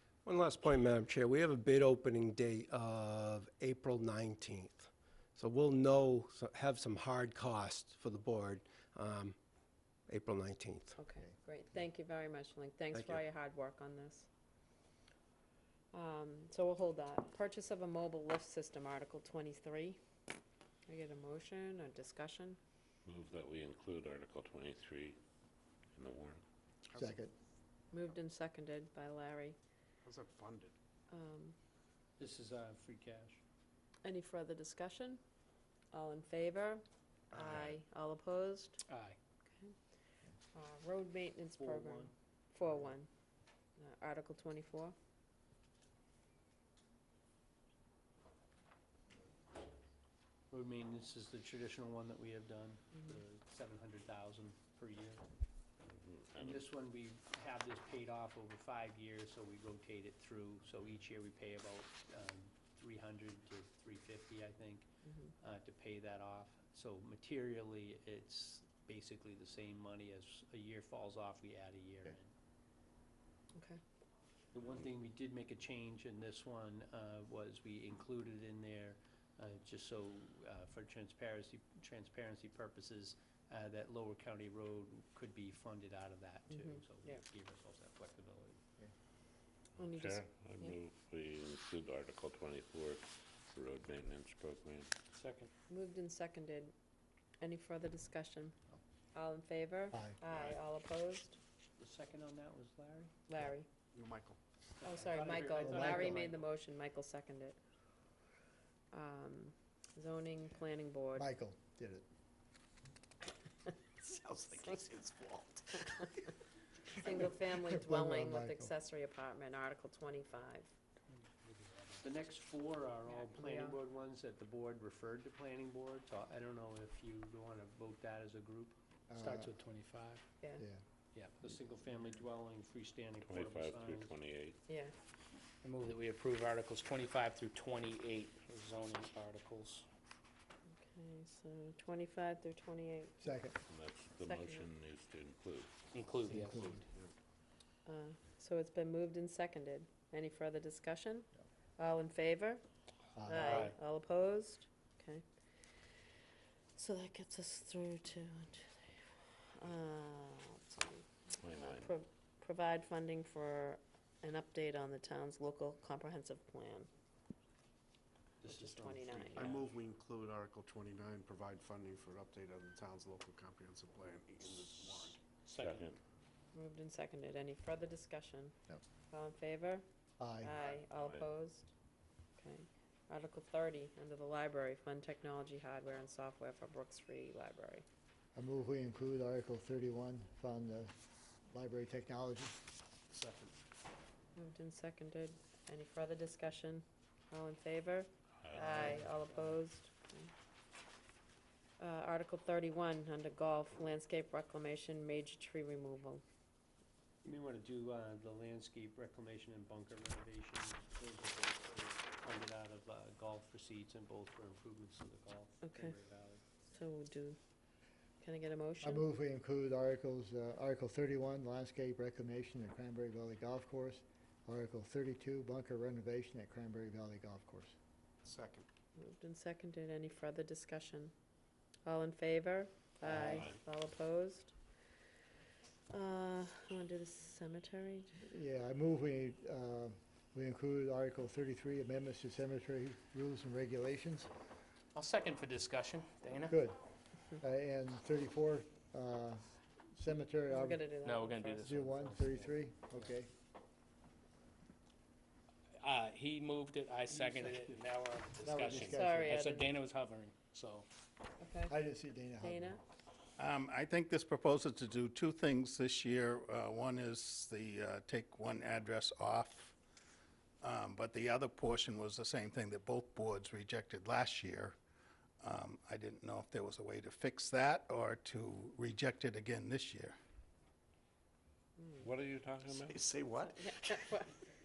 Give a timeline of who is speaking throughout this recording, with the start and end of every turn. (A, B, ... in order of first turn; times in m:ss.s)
0:00.2-0:09.4 A
0:10.1-0:11.0 A
0:11.0-0:14.3 B
0:12.9-0:13.2 A
0:15.9-0:20.0 B
0:20.9-0:22.6 B
0:23.0-0:25.2 C
0:25.9-0:26.4 C
0:26.9-0:27.2 D
0:27.0-0:27.3 E
0:27.9-0:29.6 B
0:30.0-0:30.8 D
0:31.1-0:31.6 B
0:32.2-0:33.4 F
0:34.0-0:35.2 B
0:35.9-0:38.8 B
0:37.3-0:37.8 D
0:38.9-0:39.2 G
0:39.5-0:39.7 B
0:40.5-0:43.1 B
0:41.6-0:42.1 F
0:43.8-0:45.0 B
0:50.5-0:55.2 F
0:55.9-0:56.7 C
0:56.4-1:04.9 F
1:05.0-1:05.3 B
1:05.4-1:12.3 F
1:13.6-1:13.8 B
1:14.5-1:28.6 F
1:26.5-1:27.2 B
1:29.8-1:30.8 B
1:29.8-1:34.9 C
1:35.1-1:35.5 G
1:35.7-1:36.7 B
1:37.4-1:38.6 B
1:39.1-1:41.4 B
1:39.9-1:40.2 E
1:41.8-1:43.1 F
1:43.3-1:43.7 B
1:43.9-1:44.4 D
1:44.8-1:46.5 F
1:44.8-1:47.6 B
1:45.6-1:46.2 E
1:48.9-1:51.3 B
1:51.2-1:52.0 E
1:54.0-1:56.1 D
1:56.9-2:00.7 B
1:57.7-1:58.7 E
2:01.3-2:02.1 G
2:02.0-2:08.8 F
2:03.1-2:03.8 B
2:09.1-2:09.5 E
2:09.2-2:10.2 G
2:11.3-2:14.1 F
2:13.2-2:14.6 C
2:14.7-2:14.9 B
2:15.6-2:19.9 G
2:20.8-2:23.2 B
2:23.2-2:23.6 E
2:23.7-2:25.7 C
2:24.2-2:24.7 B
2:25.9-2:26.8 G
2:26.3-2:26.8 E
2:26.6-2:27.1 D
2:27.9-2:32.6 B
2:33.2-2:33.7 E
2:33.3-2:35.2 B
2:33.4-2:33.8 G
2:36.8-2:46.9 B
2:41.4-2:41.9 C
2:48.4-2:49.6 F
2:48.5-2:49.6 B
2:49.4-2:55.2 D
2:55.4-2:55.9 G
2:55.6-2:56.0 C
2:56.5-2:58.6 B
2:59.1-2:59.8 B
3:00.2-3:00.6 E
3:00.4-3:01.7 B
3:00.6-3:01.3 C
3:02.4-3:07.8 B
3:08.4-3:10.9 E
3:11.5-3:12.6 E
3:13.1-3:13.6 D
3:14.4-3:20.3 B
3:18.4-3:18.9 C
3:18.7-3:19.6 F
3:21.8-3:26.2 B
3:27.2-3:36.4 F
3:35.6-3:36.0 B
3:36.6-3:37.4 B
3:38.2-3:39.1 B
3:38.8-3:47.7 E
3:48.2-3:48.7 D
3:49.0-3:51.1 B
3:51.8-3:54.6 B
3:53.0-3:53.5 E
3:53.3-3:53.6 C
3:55.9-3:58.2 B
3:58.2-4:04.3 E
4:04.9-4:06.6 G
4:06.5-4:06.8 E
4:07.4-4:10.9 E
4:10.5-4:11.8 B
4:11.0-4:13.0 G
4:11.6-4:13.3 E
4:15.8-4:20.9 G
4:17.1-4:17.6 F
4:18.4-4:19.4 E
4:18.8-4:19.7 B
4:21.4-4:21.8 B
4:21.7-4:22.8 E
4:22.4-4:22.8 B
4:23.4-4:29.8 H
4:30.6-4:34.8 H
4:35.4-4:40.2 H
4:41.8-4:42.1 B
4:42.0-4:43.0 C
4:42.7-4:44.1 D
4:43.5-4:44.3 B